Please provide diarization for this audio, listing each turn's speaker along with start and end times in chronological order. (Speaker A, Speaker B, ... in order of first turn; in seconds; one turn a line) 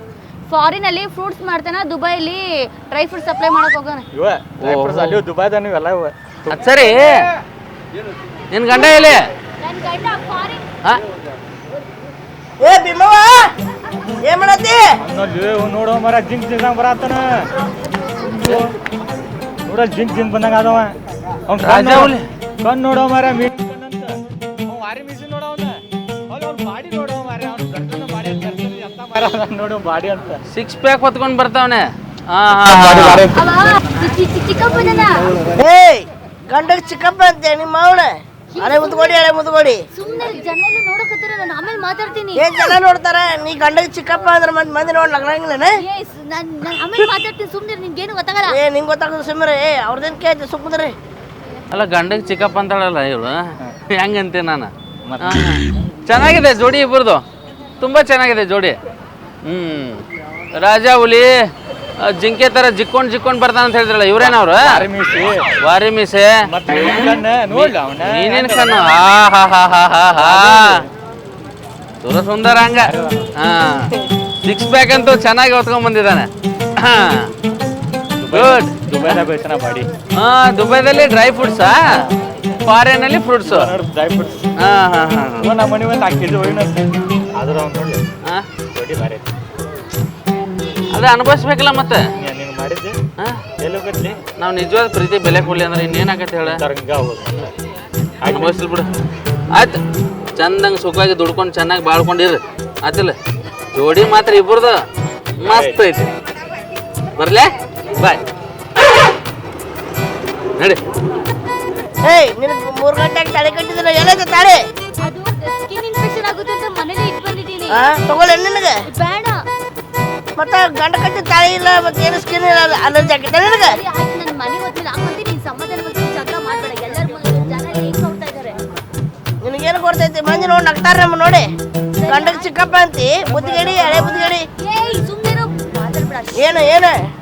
Speaker A: 0.5-4.0
Speaker B: 4.1-6.6
Speaker C: 4.6-5.2
Speaker C: 6.5-7.2
Speaker C: 8.5-9.2
Speaker A: 8.7-10.7
Speaker D: 12.6-13.5
Speaker D: 14.2-14.8
Speaker B: 15.0-17.5
Speaker B: 18.3-18.7
Speaker B: 19.6-30.4
Speaker C: 21.6-22.2
Speaker C: 30.5-33.4
Speaker A: 33.3-35.2
Speaker D: 35.5-39.8
Speaker A: 38.5-39.2
Speaker A: 39.9-42.8
Speaker D: 42.3-45.8
Speaker A: 45.8-48.6
Speaker D: 48.5-50.9
Speaker C: 51.7-53.4
Speaker C: 53.9-57.2
Speaker B: 55.0-55.5
Speaker C: 57.8-58.8
Speaker C: 59.4-61.4
Speaker C: 62.0-64.8
Speaker B: 64.2-65.5
Speaker C: 65.6-70.8
Speaker B: 66.5-69.0
Speaker B: 70.1-70.9
Speaker C: 72.0-73.9
Speaker B: 72.8-73.3
Speaker C: 74.4-77.3
Speaker B: 78.2-79.9
Speaker C: 78.3-79.2
Speaker C: 80.2-82.1
Speaker C: 82.6-83.7
Speaker B: 83.4-84.5
Speaker C: 84.6-85.5
Speaker B: 85.4-88.0
Speaker B: 88.7-89.3
Speaker C: 90.9-92.0
Speaker B: 92.2-93.0
Speaker B: 93.6-94.2
Speaker C: 94.4-96.6
Speaker B: 96.4-97.5
Speaker B: 98.2-98.6
Speaker C: 98.3-98.9
Speaker C: 99.5-99.8
Speaker C: 100.4-103.2
Speaker C: 103.7-104.8
Speaker C: 105.4-106.1
Speaker B: 105.4-105.8
Speaker C: 107.2-108.2
Speaker D: 112.0-114.6
Speaker A: 115.0-117.8
Speaker D: 117.7-118.8
Speaker A: 118.8-119.4
Speaker D: 120.4-123.8
Speaker A: 123.6-128.6
Speaker D: 129.4-131.5
Speaker A: 131.9-132.5
Speaker D: 132.1-134.5
Speaker A: 133.4-136.6
Speaker D: 136.3-137.0